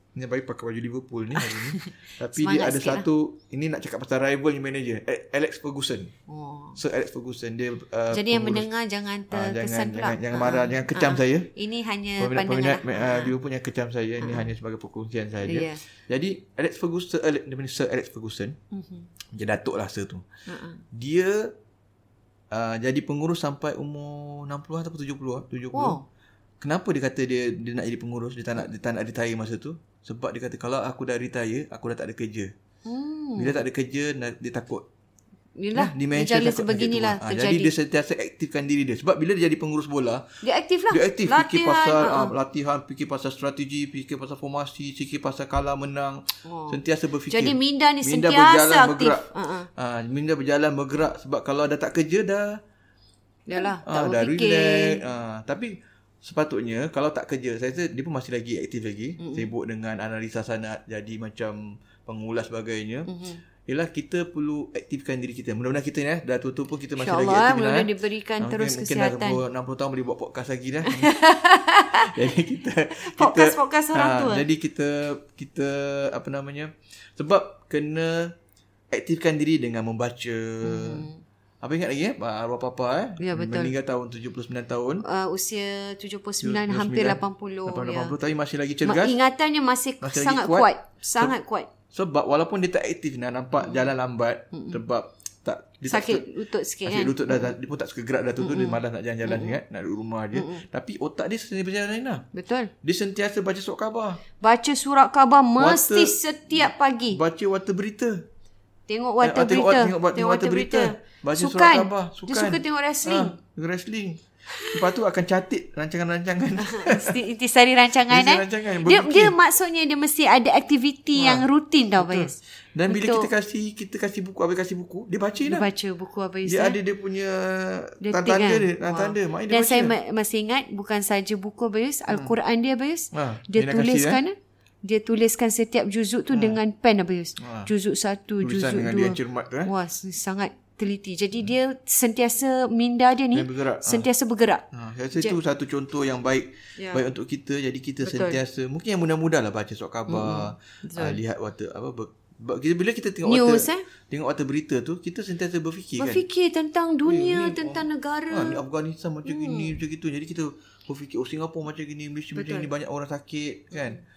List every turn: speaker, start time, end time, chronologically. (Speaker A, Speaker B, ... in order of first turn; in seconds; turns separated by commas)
Speaker A: 0.1-6.1, Speaker B: 1.4-3.1, Speaker B: 6.3-6.8, Speaker A: 6.8-8.7, Speaker B: 8.1-13.3, Speaker A: 9.3-11.5, Speaker A: 12.2-18.6, Speaker B: 14.2-14.5, Speaker B: 15.4-15.8, Speaker B: 18.7-19.1, Speaker A: 19.3-20.2, Speaker B: 20.5-20.8, Speaker A: 20.9-21.5, Speaker A: 22.5-26.0, Speaker B: 25.7-26.0, Speaker A: 26.6-32.5, Speaker B: 32.9-33.6, Speaker A: 33.4-34.8, Speaker B: 35.6-37.7, Speaker A: 35.7-40.2, Speaker B: 40.4-42.3, Speaker A: 40.9-52.5, Speaker B: 46.4-49.7, Speaker B: 53.5-55.0, Speaker A: 53.6-63.1, Speaker B: 59.2-59.5, Speaker B: 63.1-63.4, Speaker A: 63.7-71.1, Speaker B: 67.0-69.4, Speaker B: 70.8-74.5, Speaker A: 72.0-78.3, Speaker A: 78.9-81.1, Speaker B: 80.6-81.2, Speaker A: 81.6-85.0, Speaker B: 83.2-83.7, Speaker B: 85.0-88.1, Speaker A: 86.4-89.2, Speaker B: 88.8-91.7, Speaker A: 90.0-91.3, Speaker A: 91.9-96.2, Speaker B: 93.6-93.9, Speaker B: 94.5-94.8, Speaker B: 95.9-97.5, Speaker A: 96.8-102.2, Speaker B: 98.4-99.6, Speaker B: 100.3-100.6, Speaker B: 102.3-102.7, Speaker A: 102.8-104.2, Speaker B: 104.4-107.2, Speaker A: 105.6-108.2, Speaker B: 108.9-113.3, Speaker A: 109.2-117.2, Speaker B: 116.6-123.3, Speaker A: 118.1-119.3, Speaker A: 121.1-121.5, Speaker A: 122.0-125.7, Speaker B: 125.4-126.8, Speaker A: 126.5-129.9, Speaker B: 128.0-145.3, Speaker A: 132.1-132.3, Speaker A: 133.1-134.2, Speaker A: 136.3-136.6, Speaker A: 137.4-137.7, Speaker A: 138.4-139.7, Speaker A: 143.3-144.1, Speaker A: 144.7-156.2, Speaker B: 146.8-147.0, Speaker B: 148.0-148.4, Speaker B: 150.1-151.2, Speaker B: 153.2-153.8, Speaker B: 156.0-158.6, Speaker A: 157.0-164.0, Speaker B: 159.2-159.8, Speaker B: 162.3-162.7, Speaker B: 163.7-164.0